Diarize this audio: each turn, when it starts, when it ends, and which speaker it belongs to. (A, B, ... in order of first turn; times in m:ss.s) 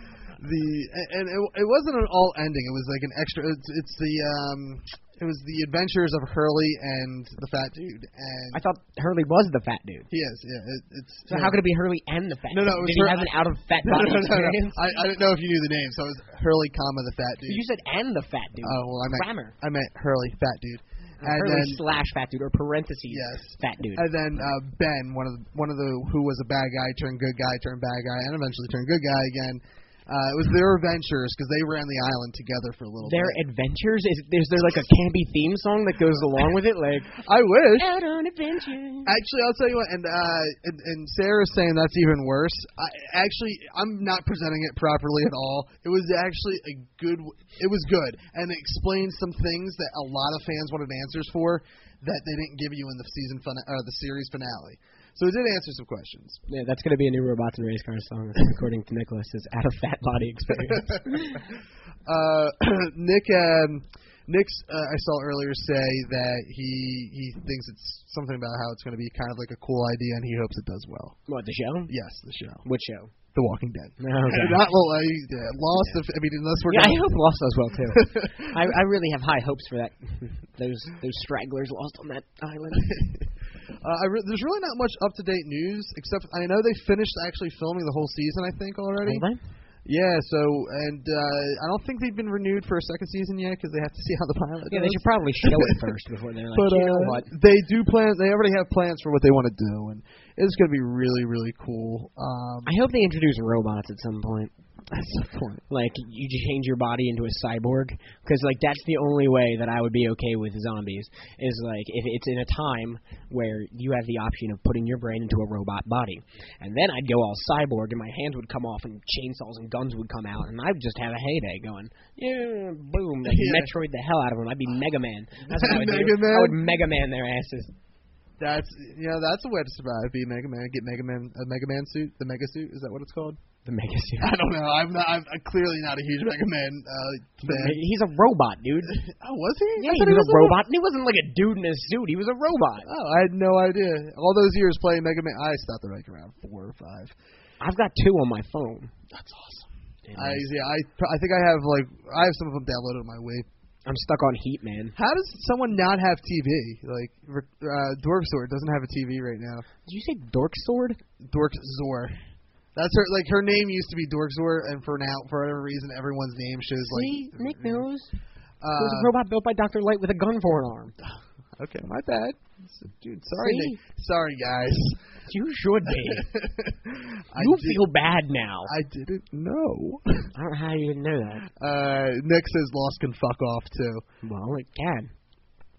0:00.4-0:08.6 A
0:08.5-0:10.1 B
0:10.1-0:11.6 A
0:11.3-0:14.8 B
0:12.5-0:17.6 A
0:17.5-0:19.6 B
0:18.6-0:21.8 A
0:21.2-0:24.1 B
0:23.1-0:33.4 A
0:33.0-0:37.2 B
0:37.2-0:37.9 A
0:37.7-0:39.1 B
0:39.1-0:56.4 A
0:56.5-1:01.4 B
1:00.8-1:01.4 A
1:02.1-1:11.2 A
1:11.3-1:11.9 B
1:11.9-1:12.6 A
1:12.6-1:13.1 B
1:13.3-1:17.2 A
1:14.0-1:14.6 B
1:16.7-1:23.0 B
1:17.9-1:18.5 A
1:22.8-1:23.3 A
1:23.8-1:29.3 A
1:29.0-1:29.4 B
1:29.8-1:35.8 A
1:34.7-1:37.3 B
1:36.5-1:42.7 A
1:42.7-1:44.5 B
1:44.9-1:45.6 A
1:45.7-2:07.7 B
2:03.3-2:03.7 A
2:05.5-2:06.6 A
2:08.4-2:13.4 A
2:13.6-2:14.3 B
2:14.2-2:17.8 A
2:17.4-2:19.0 B
2:18.9-2:20.6 A
2:19.8-2:22.9 B
2:22.9-2:27.1 A
2:27.6-2:29.0 B
2:29.1-2:33.5 A
2:30.1-2:30.5 B
2:33.9-2:35.0 B
2:35.0-2:39.7 A
2:39.9-2:41.0 B
2:41.2-2:42.2 A
2:42.8-2:47.9 A
2:46.9-2:48.1 B
2:48.6-2:49.1 A
2:48.8-2:50.9 B
2:51.6-2:55.1 A
2:53.4-2:53.8 B
2:55.3-2:56.3 B
2:55.9-2:57.8 A
2:57.4-2:58.7 B
2:58.7-3:00.3 A
3:00.3-3:01.5 B
3:01.5-3:04.0 A
3:04.2-3:05.1 B